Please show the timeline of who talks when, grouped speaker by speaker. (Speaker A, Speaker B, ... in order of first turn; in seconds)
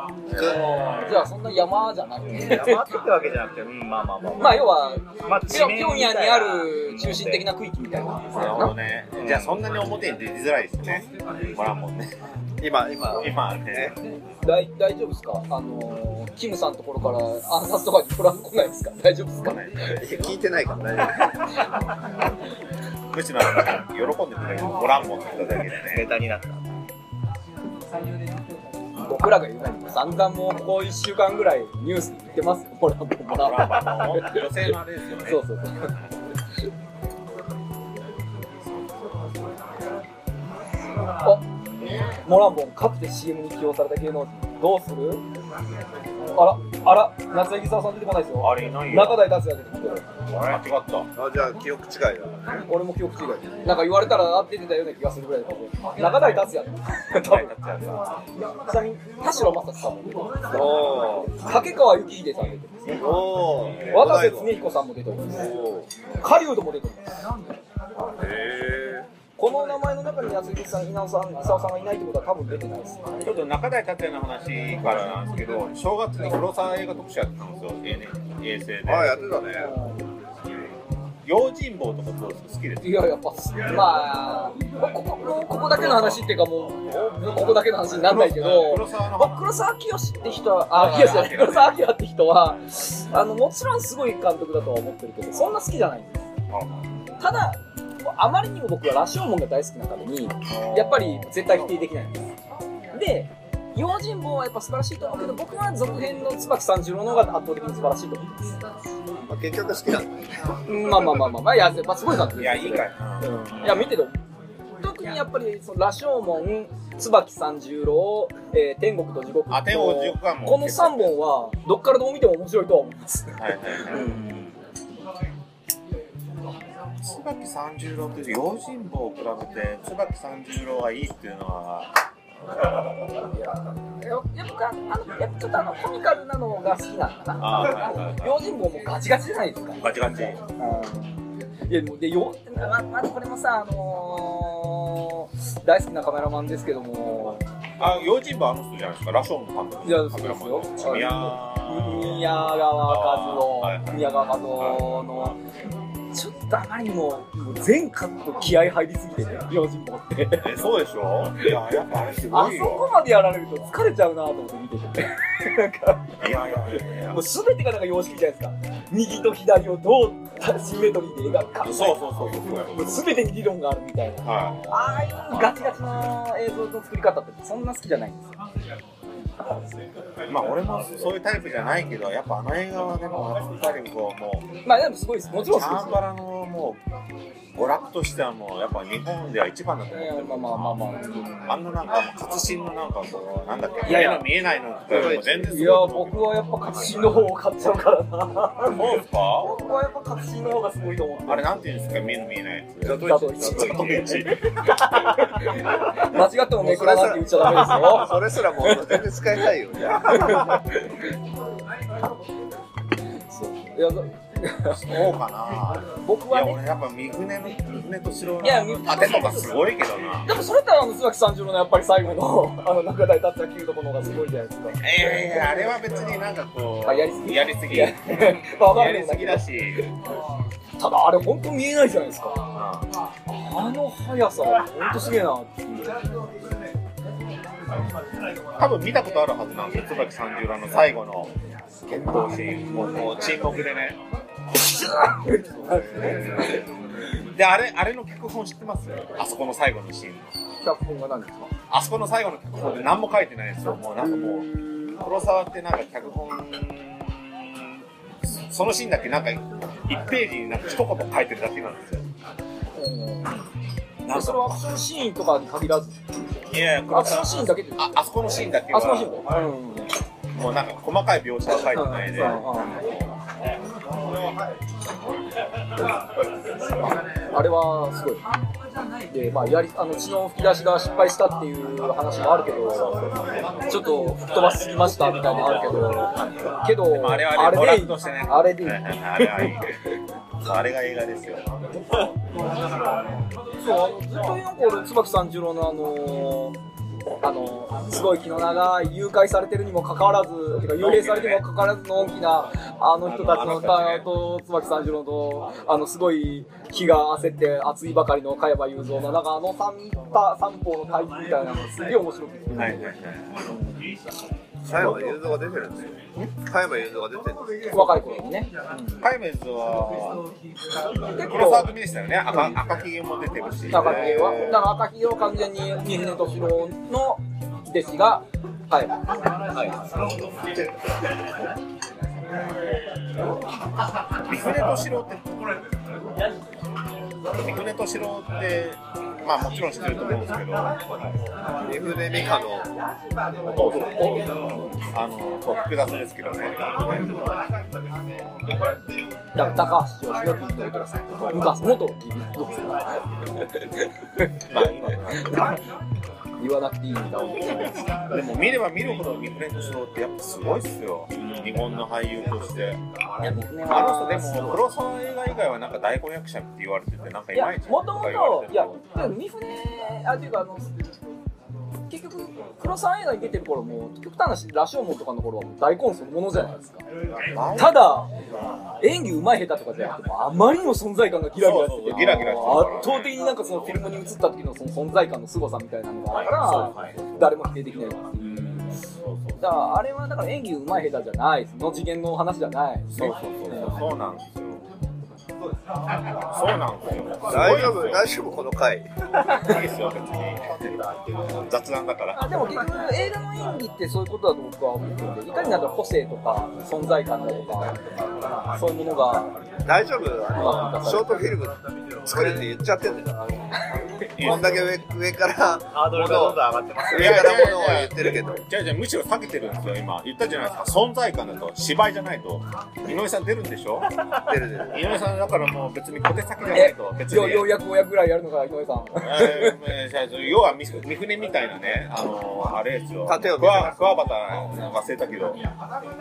Speaker A: 0.3-1.1, 8.3-12.1, 13.1-13.9, 19.4-20.1, 23.1-26.1, 33.2-35.4, 38.6-39.2, 48.4-49.3, 50.4-51.1, 57.2-58.1, 73.2-79.4, 81.2-83.0, 85.7-86.3, 87.9-89.4, 90.7-91.7, 96.5-96.9, 100.5-101.5, 112.2-113.8, 119.5-121.2, 123.4-124.2, 127.0-131.9, 137.4-138.4, 139.8-140.4, 147.8-155.1, 160.4-162.9, 166.2-167.2, 171.6-173.2, 174.2-175.4, 180.3-184.5, 185.2-186.8, 187.5-190.8, 191.4-196.4, 198.7-199.5, 201.3-204.4, 214.7-220.3, 224.8-229.8, 232.5-232.9, 238.6-244.0, 245.7-246.6, 247.3-250.3, 251.7-262.1, 264.0-264.6, 266.5-269.2, 270.3-273.1, 284.9-286.0, 286.9-289.7, 290.4-291.4, 300.7-301.5, 303.0-304.1, 312.5-313.5, 314.7-315.1, 319.0-320.2, 321.1-324.5, 334.2-335.2, 337.4-340.9, 343.5-347.2, 351.1-351.5, 354.5-355.5, 358.1-362.8, 363.6-368.8, 377.1-378.0, 381.4-383.1, 386.9-387.3, 389.0-389.4, 392.9-394.6, 396.3-398.1, 399.3-400.7, 401.3-402.4, 414.1-414.7, 416.9-423.9, 424.7-427.6, 428.9-435.4
Speaker B: 0.4-2.8, 4.4-8.7, 14.4-20.0, 29.0-34.5, 35.2-35.9, 42.2-45.2, 46.3-50.0, 52.6-57.5, 58.4-63.0, 63.9-65.5, 66.2-67.2, 69.4-73.3, 79.5-80.0, 82.8-96.3, 97.2-102.2, 102.9-108.5, 110.7-114.2, 114.8-124.2, 134.0-147.5, 149.8-155.4, 156.1-160.6, 162.3-166.1, 167.0-172.0, 172.7-178.3, 184.6-186.0, 189.9-191.6, 193.8-194.3, 194.9-198.9, 199.4-201.7, 203.0-209.0, 210.1-210.9, 213.3-215.1, 216.0-216.6, 218.4-219.5, 220.2-224.8, 226.8-229.8, 230.8-232.4, 233.3-236.0, 242.1-243.2, 244.5-246.6, 250.6-251.5, 254.0-255.0, 262.7-263.4, 264.1-266.0, 266.9-267.9, 268.7-269.9, 271.7-272.8, 276.8-278.2, 279.1-283.1, 283.6-289.6, 293.6-296.6, 297.2-312.9, 313.5-313.9, 314.8-315.1, 317.7-319.0, 321.1-321.7, 322.3-322.6, 323.7-328.9, 343.5-344.7, 349.3-352.8, 353.6-354.3, 355.2-355.5, 356.4-357.8, 363.2-364.6, 367.3-370.7, 371.9-376.8, 377.5-378.1, 378.8-388.8, 389.4-393.8, 402.1-407.8, 408.5-409.3, 410.3-411.3, 426.5-429.6
Speaker C: 2.3-7.5, 9.1-9.7, 25.8-26.6, 50.3-50.6, 113.5-113.8, 124.0-124.5, 329.5-329.8, 386.2-387.0, 415.7-417.5
Speaker D: 12.6-13.9, 20.0-21.3, 51.1-52.4, 60.5-61.4, 62.9-64.5, 65.3-65.9, 68.2-69.1, 78.8-79.7, 109.3-110.2, 194.9-195.5, 202.8-204.2, 206.1-210.6, 314.6-317.8, 323.8-324.6, 341.6-342.7, 397.3-398.9, 409.6-413.7, 414.2-418.4, 424.3-424.8, 433.1-433.8